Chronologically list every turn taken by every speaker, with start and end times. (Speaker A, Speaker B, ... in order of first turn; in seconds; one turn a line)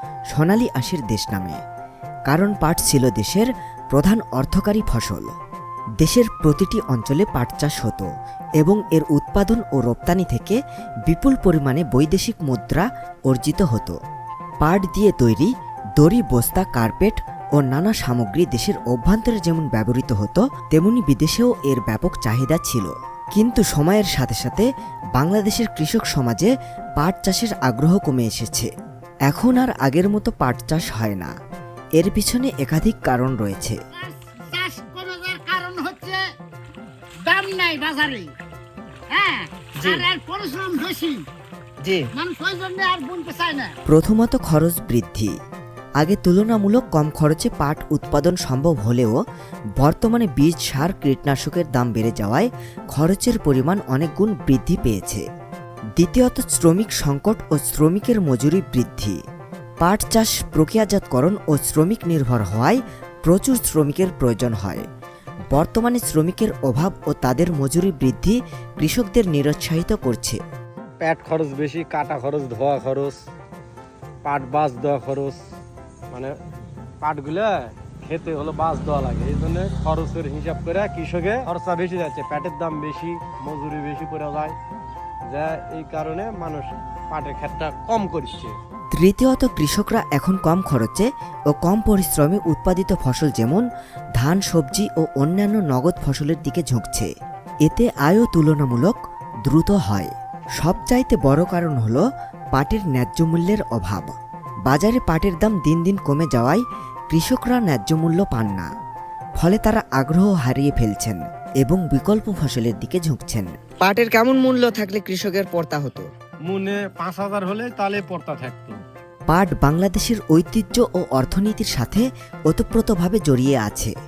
Speaker A: 0.3-1.6
Speaker A: 2.3-5.3
Speaker A: 6.0-8.1
Speaker A: 8.6-13.9
Speaker A: 14.6-28.7
Speaker A: 29.3-31.3
Speaker A: 32.0-33.8
Speaker B: 33.9-36.2
Speaker B: 37.2-38.3
Speaker B: 39.1-41.2
Speaker B: 42.2-43.7
Speaker A: 43.9-45.3
Speaker A: 46.0-49.1
Speaker A: 49.8-55.2
Speaker A: 56.0-59.2
Speaker A: 59.8-64.8
Speaker A: 65.5-70.4
Speaker C: 71.0-73.2
Speaker C: 74.2-75.4
Speaker C: 77.0-84.5
Speaker C: 85.3-88.5
Speaker A: 88.9-93.6
Speaker A: 94.2-97.1
Speaker A: 97.7-104.1
Speaker A: 104.7-108.7
Speaker A: 109.4-113.5
Speaker D: 113.8-116.1
Speaker C: 116.5-118.8
Speaker A: 119.3-123.9